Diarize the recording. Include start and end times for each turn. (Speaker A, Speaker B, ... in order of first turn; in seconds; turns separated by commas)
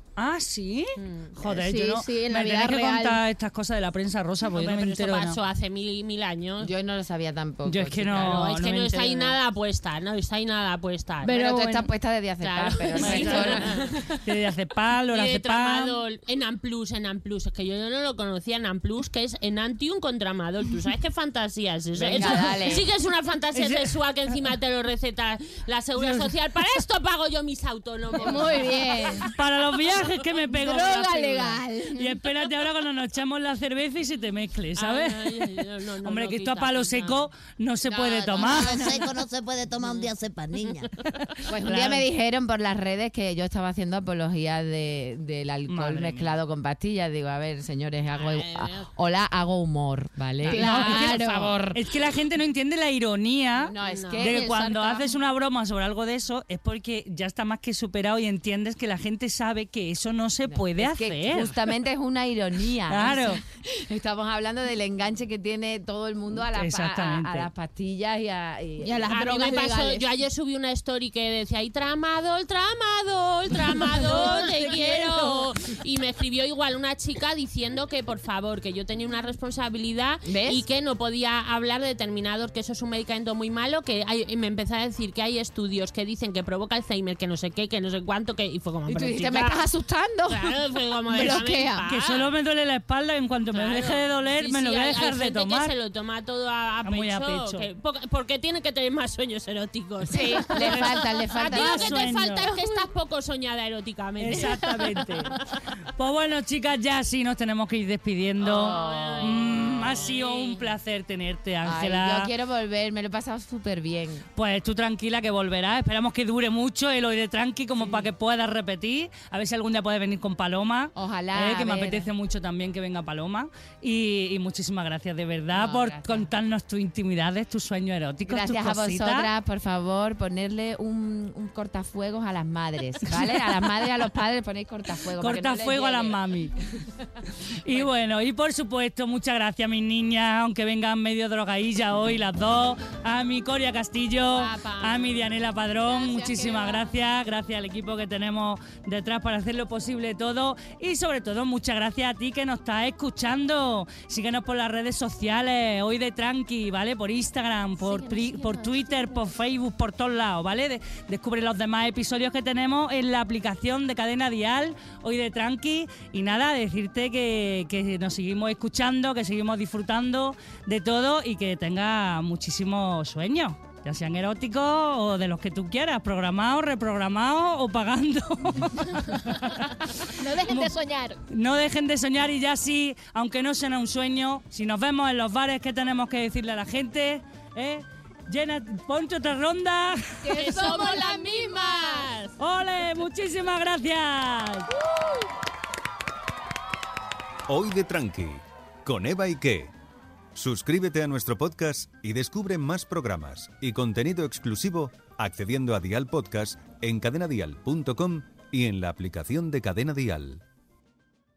Speaker A: 0.2-5.4, Speaker B: 1.0-1.3, Speaker C: 1.4-3.2, Speaker B: 4.4-6.7, Speaker D: 6.6-8.5, Speaker A: 7.7-9.4, Speaker B: 8.2-11.3, Speaker C: 11.2-11.9, Speaker D: 11.2-14.3, Speaker B: 12.4-14.0, Speaker A: 12.9-13.7, Speaker A: 14.2-16.0, Speaker B: 15.1-30.9, Speaker D: 21.9-22.9, Speaker A: 22.1-22.4, Speaker A: 23.5-23.9, Speaker A: 25.9-26.3, Speaker C: 28.2-29.3, Speaker A: 29.2-35.5, Speaker C: 30.5-32.2, Speaker B: 34.8-37.3, Speaker A: 36.0-38.9, Speaker E: 37.8-40.9, Speaker C: 38.5-39.0, Speaker B: 39.8-40.1, Speaker A: 41.2-42.0, Speaker D: 41.5-51.9, Speaker A: 45.7-46.3, Speaker B: 48.1-48.9, Speaker C: 50.5-51.6, Speaker A: 50.5-61.6, Speaker D: 53.5-54.6, Speaker B: 53.8-54.3, Speaker C: 54.2-55.1, Speaker D: 60.4-69.1, Speaker A: 62.9-63.4, Speaker A: 66.5-67.5, Speaker C: 68.8-70.0, Speaker B: 69.1-89.6, Speaker C: 74.0-75.5, Speaker A: 74.3-75.0, Speaker D: 80.2-80.6, Speaker D: 88.8-90.6, Speaker B: 90.3-92.3, Speaker A: 91.1-95.7, Speaker C: 91.1-91.8, Speaker B: 93.5-105.2, Speaker A: 96.8-97.7, Speaker D: 100.1-102.0, Speaker C: 100.2-100.5, Speaker A: 101.5-102.8, Speaker A: 104.2-112.3, Speaker D: 108.4-109.9, Speaker B: 108.4-110.7, Speaker D: 111.6-114.3, Speaker A: 114.3-129.3, Speaker D: 120.9-122.1, Speaker D: 125.5-126.3, Speaker D: 128.2-136.2, Speaker A: 135.2-136.5, Speaker A: 137.5-180.7, Speaker C: 144.3-145.2, Speaker C: 145.8-146.9, Speaker C: 157.9-159.3, Speaker C: 180.2-181.2, Speaker A: 181.3-190.5, Speaker C: 190.2-192.1, Speaker B: 190.3-192.3, Speaker A: 192.4-194.7, Speaker F: 197.5-199.7, Speaker F: 200.3-210.4